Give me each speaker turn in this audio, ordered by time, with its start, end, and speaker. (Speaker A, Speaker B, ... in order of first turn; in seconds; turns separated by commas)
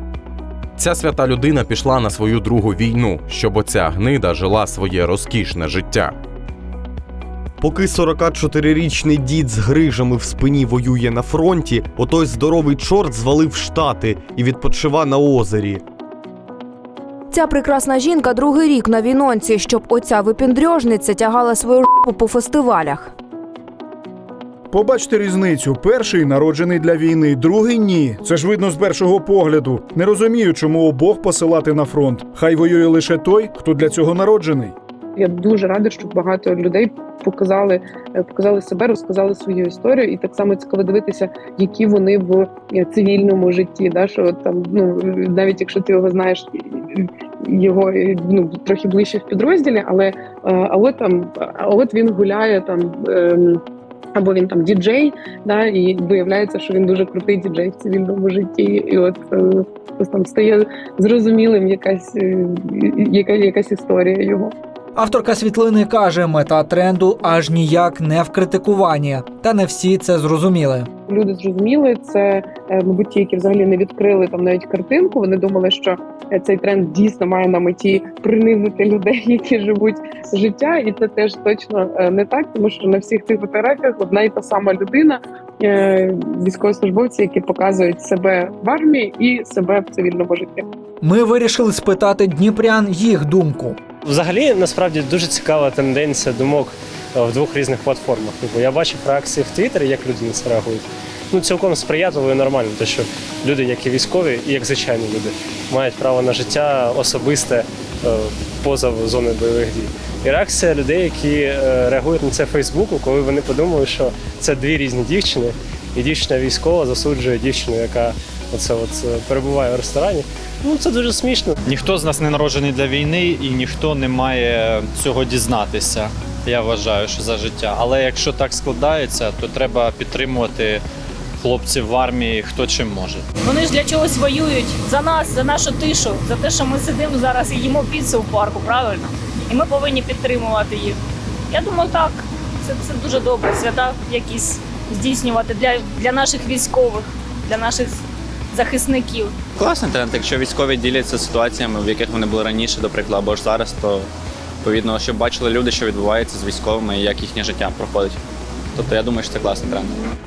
Speaker A: 0.8-6.1, Speaker B: 7.6-15.8, Speaker C: 17.3-23.1, Speaker D: 24.7-34.7, Speaker E: 35.1-53.6, Speaker E: 54.1-64.5, Speaker F: 65.0-70.9, Speaker E: 71.1-90.7, Speaker F: 91.0-93.8, Speaker G: 94.0-121.6, Speaker H: 121.7-130.8, Speaker H: 131.4-133.2, Speaker I: 133.4-141.0, Speaker I: 141.5-149.3, Speaker J: 149.6-154.1, Speaker J: 154.6-158.2, Speaker J: 158.7-160.0